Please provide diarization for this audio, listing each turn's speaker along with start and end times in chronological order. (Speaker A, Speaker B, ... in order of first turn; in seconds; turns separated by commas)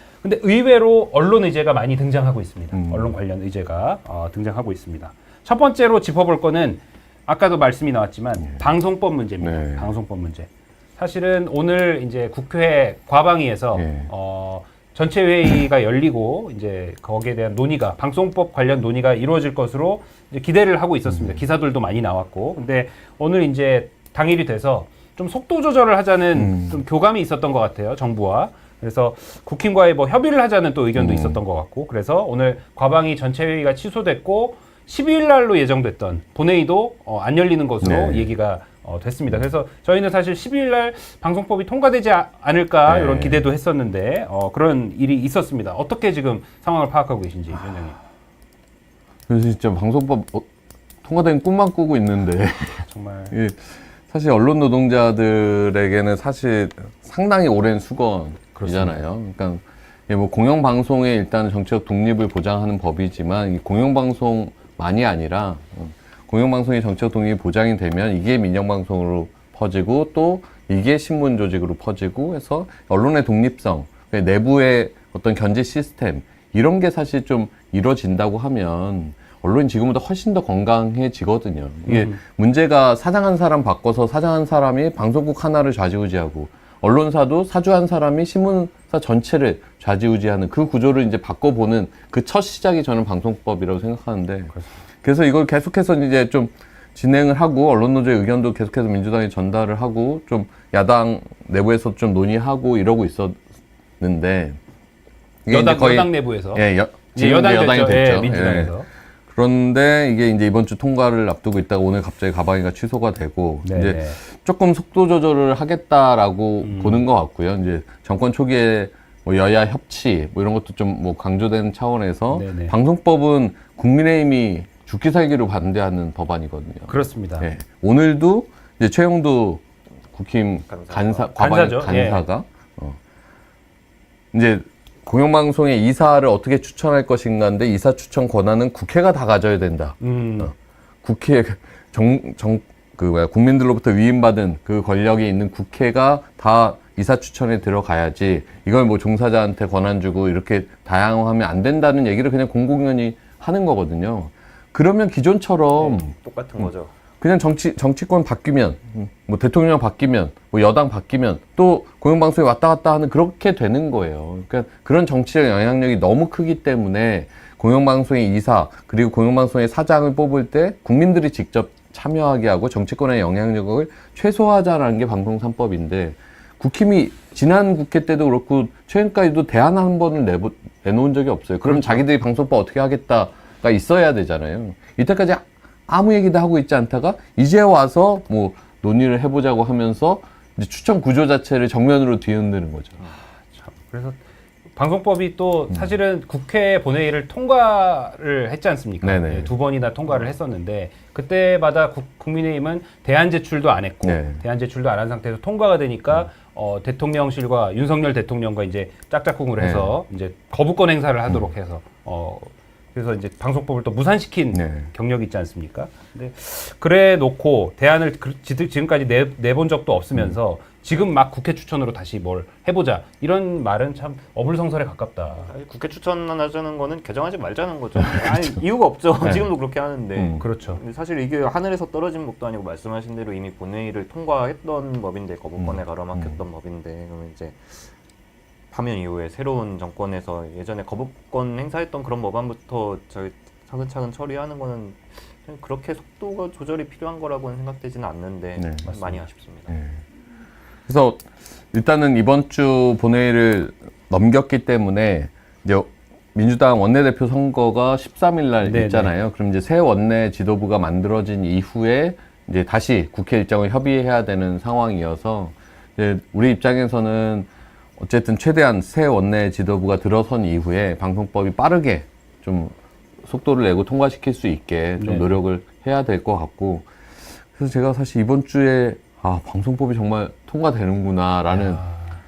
Speaker A: 0.2-48.0, Speaker B: 2.7-3.2, Speaker B: 9.4-9.9, Speaker B: 13.8-14.1, Speaker B: 21.1-21.4, Speaker B: 26.4-26.8, Speaker B: 30.9-31.4, Speaker B: 37.8-38.3, Speaker B: 42.9-43.5, Speaker B: 49.3-50.5, Speaker B: 51.0-103.4, Speaker A: 52.9-53.4, Speaker A: 58.5-59.0, Speaker A: 81.9-82.2, Speaker B: 104.0-104.6, Speaker B: 105.5-108.8, Speaker A: 105.5-108.9, Speaker B: 109.3-133.0, Speaker A: 113.6-114.2, Speaker A: 116.6-117.0, Speaker A: 122.3-122.8, Speaker A: 126.9-127.5, Speaker C: 130.7-131.4, Speaker A: 131.3-132.2, Speaker B: 134.3-140.5, Speaker A: 140.0-140.5, Speaker B: 141.0-193.0, Speaker C: 155.8-156.9, Speaker A: 181.7-182.0, Speaker A: 193.5-194.2, Speaker A: 194.8-225.5, Speaker B: 199.0-199.5, Speaker B: 204.0-204.4, Speaker B: 209.6-210.0, Speaker B: 214.5-214.9, Speaker C: 225.5-237.9, Speaker B: 228.0-228.6, Speaker B: 229.2-229.5, Speaker B: 230.2-230.5, Speaker A: 230.4-230.8, Speaker B: 235.6-236.4, Speaker C: 238.7-249.7, Speaker B: 248.6-249.0, Speaker B: 249.7-250.0, Speaker B: 250.9-272.7, Speaker A: 258.6-259.1, Speaker B: 273.2-276.9, Speaker A: 275.0-275.4, Speaker B: 277.5-281.8, Speaker A: 281.5-282.2